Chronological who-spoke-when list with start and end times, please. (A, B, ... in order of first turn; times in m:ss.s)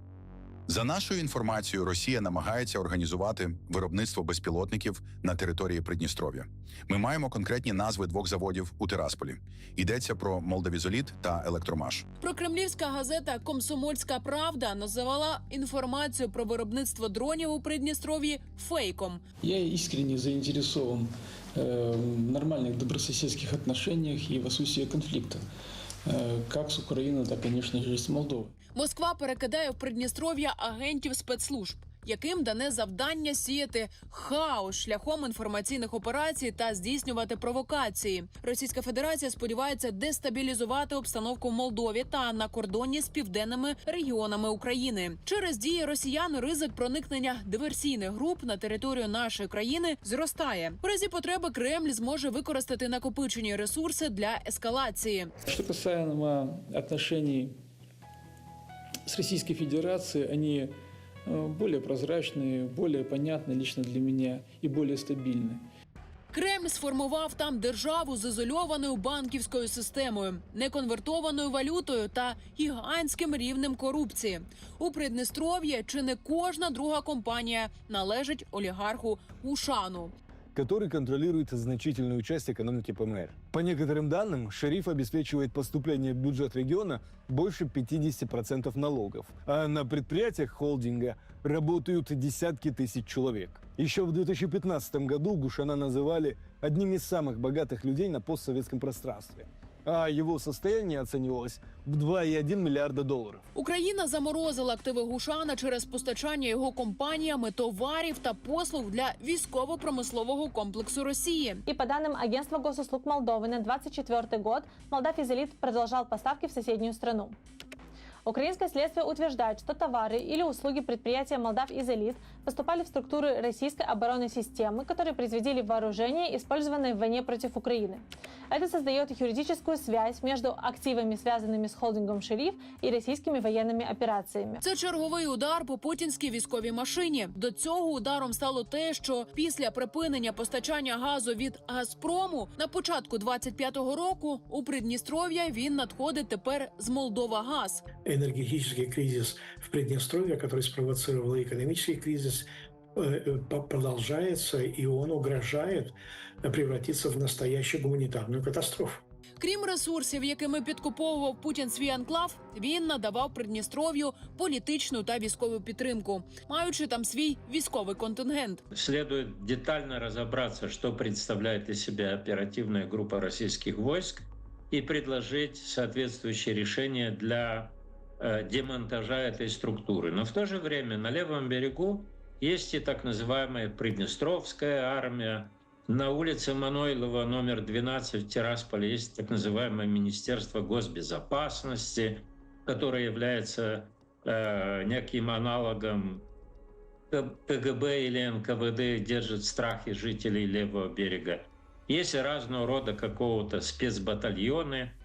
0:00.7-0:12.0 A
0:12.2-0:19.2 B
0:19.4-0:25.5 C
0:26.0-0:28.5 C
0:28.7-0:55.3 B
0:55.5-0:57.6 C
0:59.0-1:05.6 C
1:06.3-1:20.1 B
1:20.5-1:43.4 D
1:43.5-1:51.6 B
1:51.7-1:57.4 E
1:58.2-2:14.6 E
2:14.6-2:27.8 B
2:28.0-2:39.0 F
2:39.4-2:48.6 B
2:48.7-3:16.2 G
3:17.1-3:25.0 G